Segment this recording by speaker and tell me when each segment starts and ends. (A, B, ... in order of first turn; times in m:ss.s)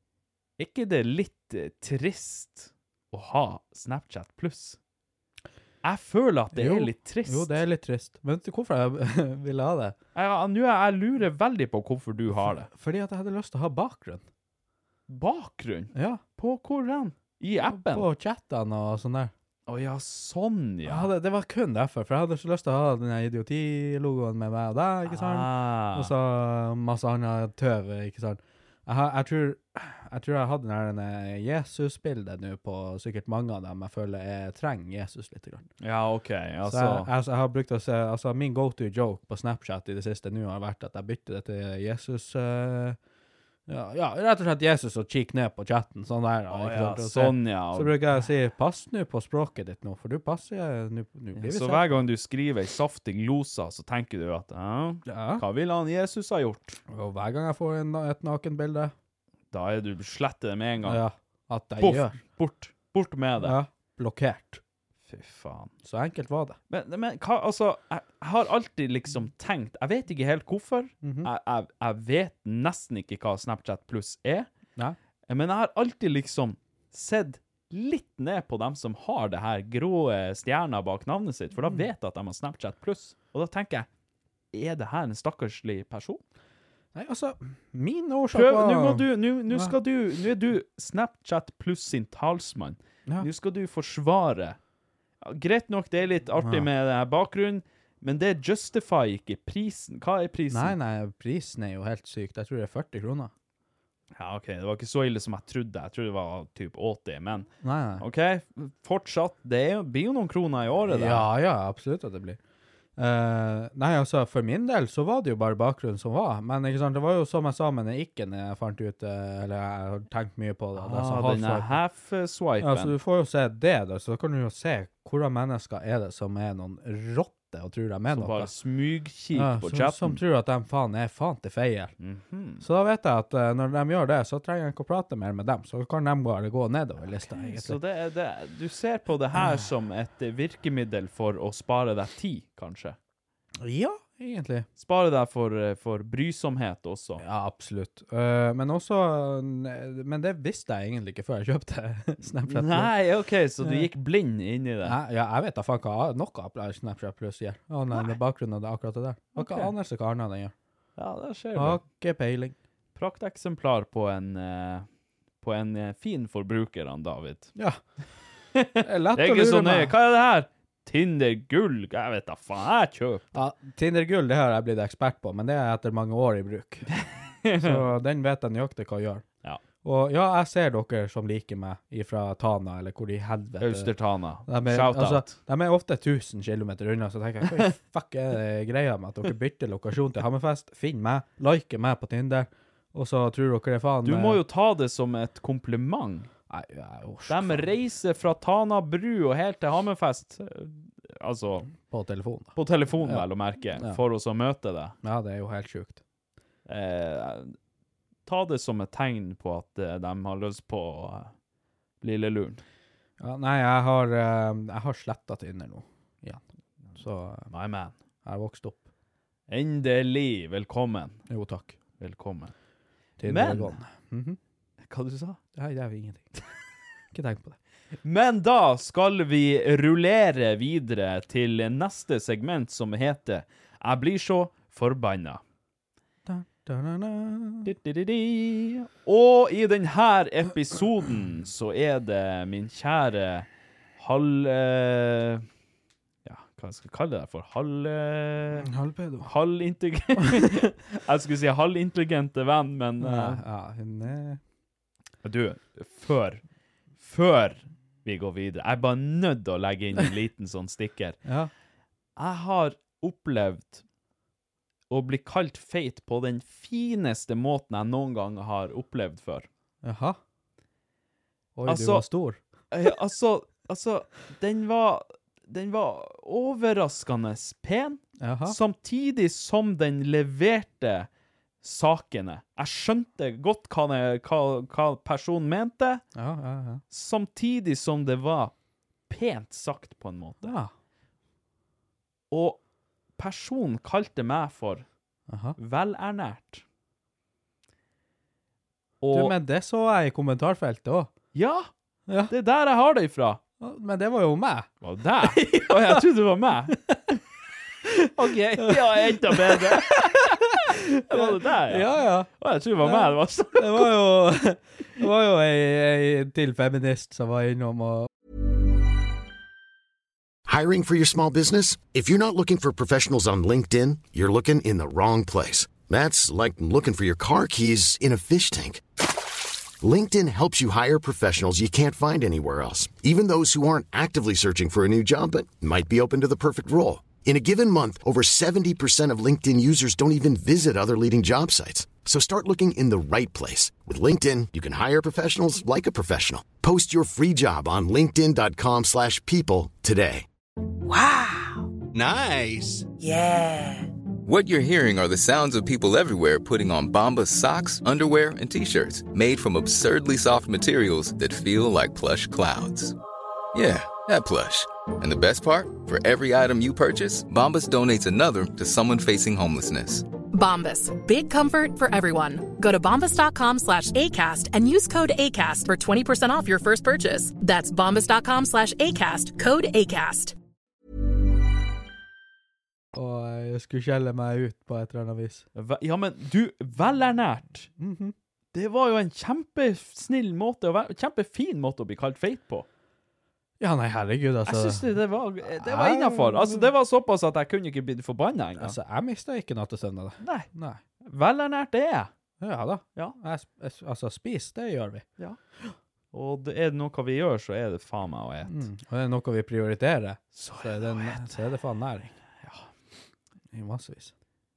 0:00.6-0:04.8 A
0:05.8-0:07.6 A
0:06.5-0:10.0 B
0:10.2-0:12.7 A
0:12.6-0:14.2 B
0:15.1-0:18.1 A
0:15.9-0:16.2 B
0:17.6-0:19.3 B
0:19.7-0:21.1 A
0:20.8-0:35.7 B
0:25.1-0:26.1 A
0:35.8-0:37.1 A
0:36.6-0:43.0 B
0:43.7-0:52.0 B
0:46.5-0:48.2 A
0:51.4-0:56.8 A
0:55.1-0:55.4 B
0:56.9-0:58.9 B
0:59.5-1:01.0 A
1:00.8-1:02.2 B
1:01.8-1:03.6 A
1:03.4-1:04.6 B
1:05.1-1:05.7 A
1:05.8-1:06.6 B
1:06.7-1:14.5 A
1:11.0-1:11.3 B
1:15.3-1:23.9 A
1:24.5-1:26.2 A
1:26.9-1:29.7 B
1:28.3-1:34.6 A
1:35.2-1:40.8 A
1:36.4-1:36.7 B
1:40.5-1:43.3 B
1:44.2-1:47.5 A
1:47.6-1:48.0 B
1:48.0-1:51.3 A
1:50.9-1:52.4 B
1:53.0-2:01.8 B
2:00.8-2:02.9 A
2:02.6-2:08.5 B
2:08.1-2:10.2 A
2:09.3-2:11.9 B
2:12.0-2:12.6 A
2:12.6-2:17.8 B
2:17.1-2:23.0 A
2:23.6-2:24.7 B
2:24.8-2:27.2 A
2:27.2-2:32.9 B
2:32.5-2:35.0 A
2:33.6-2:33.9 B
2:34.8-2:40.5 B
2:37.9-2:38.2 A
2:39.4-2:39.7 A
2:41.0-2:41.8 A
2:41.6-2:42.6 B
2:43.0-2:44.9 A
2:45.4-2:47.5 A
2:47.6-2:47.8 B
2:48.6-2:53.2 A
2:48.8-2:49.9 B
2:53.3-2:56.9 B
2:56.9-2:57.8 A
2:57.6-2:59.2 B
2:59.8-3:03.9 B
3:03.6-3:05.4 A
3:04.5-3:14.4 B
3:14.0-3:16.3 A
3:16.5-3:17.7 B
3:17.3-3:21.7 A
3:21.8-3:23.2 B
3:22.6-3:25.0 A
3:25.0-3:26.0 B
3:26.7-3:27.6 A
3:28.3-3:31.3 A
3:32.0-3:32.6 A
3:33.2-3:36.4 B
3:37.0-3:37.5 B
3:37.5-3:37.9 A
3:38.2-3:38.9 B
3:39.5-3:41.2 A
3:41.3-3:41.8 B
3:42.0-3:42.5 A
3:43.2-3:44.4 B
3:43.2-3:43.8 A
3:44.9-3:45.4 A
3:45.6-3:46.3 B
3:47.1-3:47.6 B
3:48.0-3:55.4 A
3:56.3-3:57.7 B
3:57.6-4:03.5 A
4:04.0-4:05.5 A
4:06.2-4:08.7 A
4:08.6-4:09.3 B
4:09.2-4:13.4 A
4:10.2-4:10.6 B
4:13.0-4:14.4 B
4:15.2-4:16.4 A
4:17.0-4:21.2 A
4:21.3-4:21.5 B
4:22.2-4:23.8 A
4:24.9-4:29.5 A
4:29.8-4:30.2 B
4:31.6-4:32.4 B
4:31.7-4:32.0 A
4:32.7-4:41.1 A
4:38.2-4:38.6 B
4:41.6-4:46.0 A
4:46.2-4:46.8 B
4:46.9-4:48.5 A
4:49.1-4:50.6 A
4:50.4-4:50.7 B
4:52.3-4:52.6 A
4:53.2-4:54.8 A
4:55.3-4:55.6 B
4:55.6-4:56.6 A
4:59.0-4:59.3 A
4:59.1-5:01.1 B
5:01.3-5:01.7 A
5:02.1-5:02.3 B
5:02.3-5:03.4 A
5:03.6-5:04.7 B
5:04.8-5:06.8 A
5:05.2-5:06.0 B
5:06.7-5:07.0 B
5:07.9-5:12.3 B
5:08.1-5:13.9 A
5:12.8-5:18.1 B
5:20.5-5:28.8 C
5:29.8-5:50.3 C
5:54.2-6:03.0 D
6:03.5-6:10.1 D
6:10.3-6:20.4 E
6:22.9-6:25.4 B
6:25.6-6:27.7 A
6:27.8-6:28.2 B
6:28.5-6:32.7 A
6:33.6-6:34.9 B
6:34.5-6:38.8 A
6:35.6-6:36.7 B
6:38.6-6:40.8 B
6:40.2-6:40.5 A
6:41.0-6:42.1 A
6:42.4-6:45.0 B
6:46.1-6:48.6 A
6:48.5-6:52.2 B
6:50.4-6:51.3 A
6:52.4-6:52.7 A
6:53.5-6:54.1 B